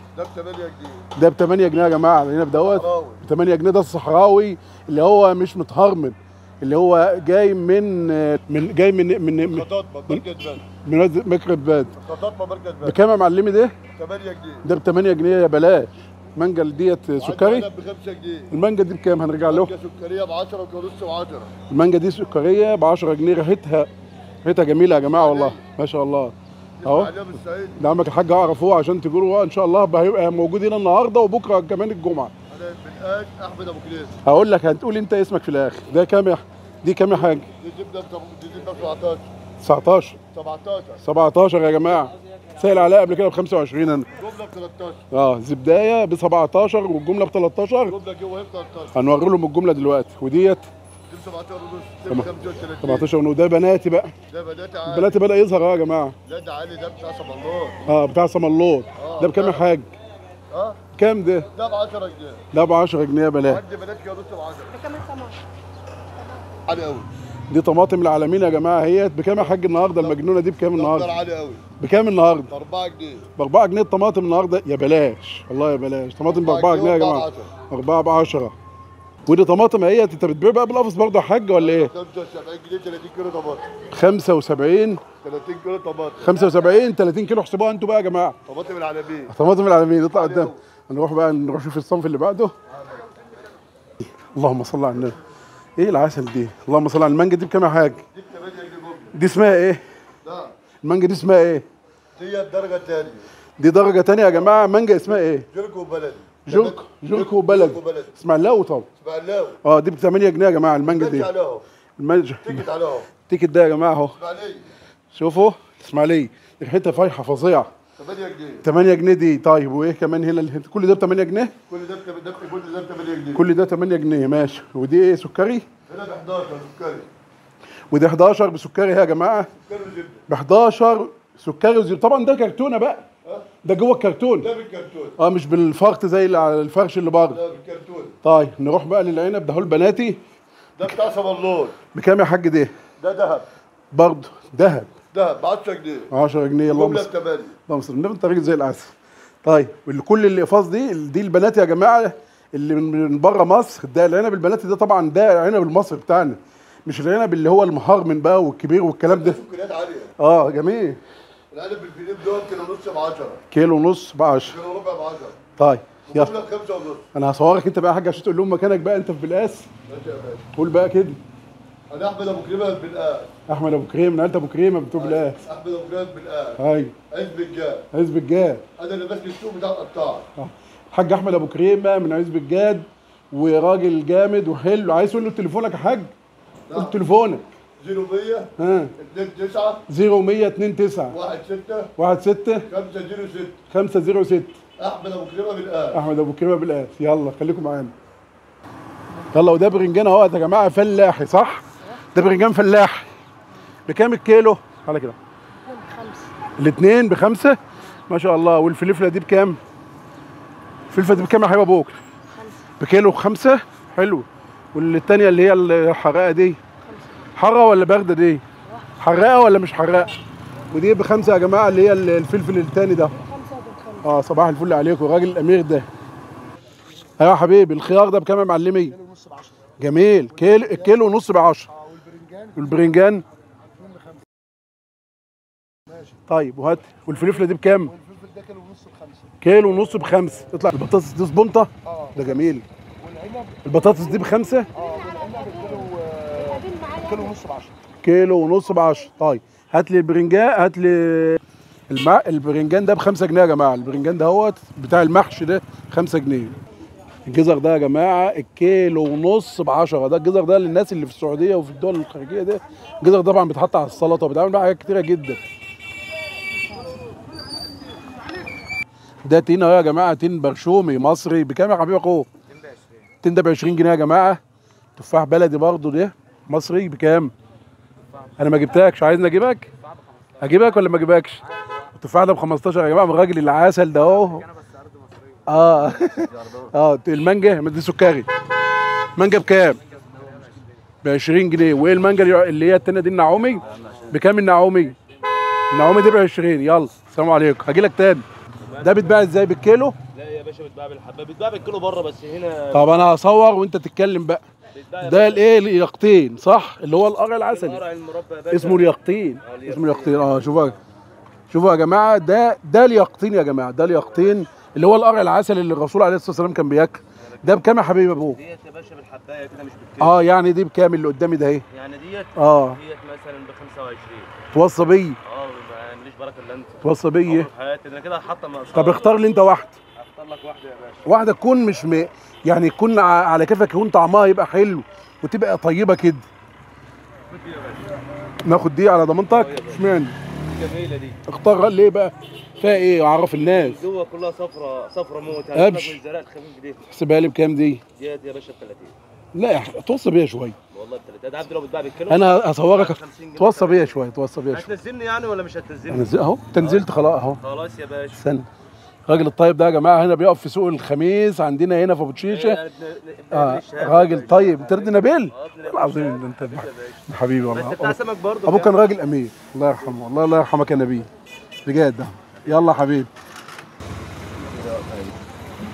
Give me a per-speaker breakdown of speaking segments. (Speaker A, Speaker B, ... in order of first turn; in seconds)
Speaker A: 0.1-1.1, 2.6-3.2, 9.5-10.6, 12.0-13.0, 13.9-14.6, 17.2-18.5, 19.4-21.5, 25.1-25.6, 26.8-27.8, 32.5-34.2, 37.5-39.2, 40.3-41.0, 44.1-45.0, 47.9-48.9, 51.1-53.1, 54.3-55.2, 56.2-57.8, 59.0-59.7, 60.5-60.8, 61.5-62.4, 63.4-64.9, 66.7-67.1, 70.7-71.6, 72.5-73.2, 76.4-77.5, 81.6-83.7, 85.2-86.4, 88.5-89.3, 90.1-90.5, 92.7-93.0, 98.1-99.1, 100.2-100.5, 102.2-103.2, 105.5-108.1, 109.0-109.6, 110.8-111.6, 112.4-113.1, 114.2-114.7, 118.0-118.6, 121.7-123.4, 125.9-127.1, 129.6-130.2, 133.2-133.5, 134.4-135.2, 137.3-138.1, 140.8-141.8, 143.0-143.4, 145.1-146.1, 146.6-147.5, 159.1-160.1, 161.5-163.4, 164.5-165.4, 166.1-167.1, 169.9-170.4, 171.9-173.3, 175.0-177.9, 178.8-180.2, 186.7-186.9, 187.8-189.8, 191.1-191.9, 192.7-193.6, 194.8-196.0
Speaker B: 1.1-10.2, 10.8-11.9, 12.8-13.8, 14.6-17.7, 18.5-19.7, 21.7-23.9, 24.4-27.1, 27.8-32.3, 34.2-37.5, 39.6-40.2, 41.0-44.1, 45.1-47.9, 48.9-50.7, 52.8-54.1, 54.9-56.1, 57.9-59.9, 60.9-61.5, 62.5-63.6, 67.5-71.1, 71.8-72.5, 73.3-78.5, 79.2-81.9, 83.9-85.0, 86.2-88.4, 89.3-92.5, 94.0-95.2, 95.8-98.0, 99.1-99.8, 100.8-101.7, 103.6-105.5, 106.5-108.9, 109.6-111.3, 112.0-112.6, 113.2-114.2, 115.1-117.7, 118.6-121.5, 123.3-125.7, 127.9-129.5, 130.3-133.1, 133.6-134.5, 135.2-137.4, 138.2-140.2, 141.9-142.7, 143.9-144.9, 146.1-147.1, 147.7-159.4, 160.2-161.0, 163.5-164.6, 165.6-166.3, 167.1-169.7, 170.5-171.2, 173.5-175.4, 176.6-176.9, 177.9-178.7, 180.4-186.1, 186.7-187.5, 188.6-188.9, 189.9-191.1, 191.9-192.7, 193.7-194.6, 195.9-197.9, 199.3-203.1, 203.9-205.2, 206.6-209.6, 210.9-211.9, 212.8-216.6, 217.3-218.4, 219.0-220.2, 220.7-223.2, 224.0-225.8, 227.2-229.0, 229.8-231.7, 232.5-233.2, 236.3-237.9, 239.4-242.6, 243.6-244.7, 248.0-256.6, 257.2-265.4, 269.2-272.3, 273.2-274.4, 274.9-277.3, 278.4-279.7, 280.4-281.4, 281.9-284.4, 285.4-288.3, 289.1-289.8, 291.0-294.9, 295.7-298.2, 298.8-300.0, 302.7-304.4, 305.0-307.8, 308.5-310.8, 311.5-318.4, 320.0-321.6, 322.4-322.8, 324.5-325.2, 326.8-327.5, 328.7-329.8, 331.0-336.2, 338.4-340.1, 341.2-343.8, 345.5-346.0, 346.9-347.8, 349.3-350.6, 352.1-354.7, 355.9-357.4, 358.1-358.4, 359.1-362.6, 363.3-371.1, 371.6-373.1
Speaker C: 64.8-65.4, 205.7-206.3, 212.4-212.6, 223.2-224.0, 229.0-229.7, 230.4-230.9, 231.8-232.7, 233.8-234.2, 237.9-239.2, 241.9-242.3, 243.0-243.6, 244.7-247.7
Speaker D: 286.3-286.6, 289.8-290.6, 293.6-294.1, 295.0-295.4, 298.6-299.2, 300.1-303.1, 304.7-305.6, 307.5-310.8, 317.2-320.2, 321.7-324.3, 325.2-329.1, 329.9-331.1, 337.3-337.9, 339.3-339.8, 340.5-341.2, 343.3-346.8, 347.9-348.9, 350.7-356.9, 357.4-358.2, 362.3-368.7, 374.4-375.1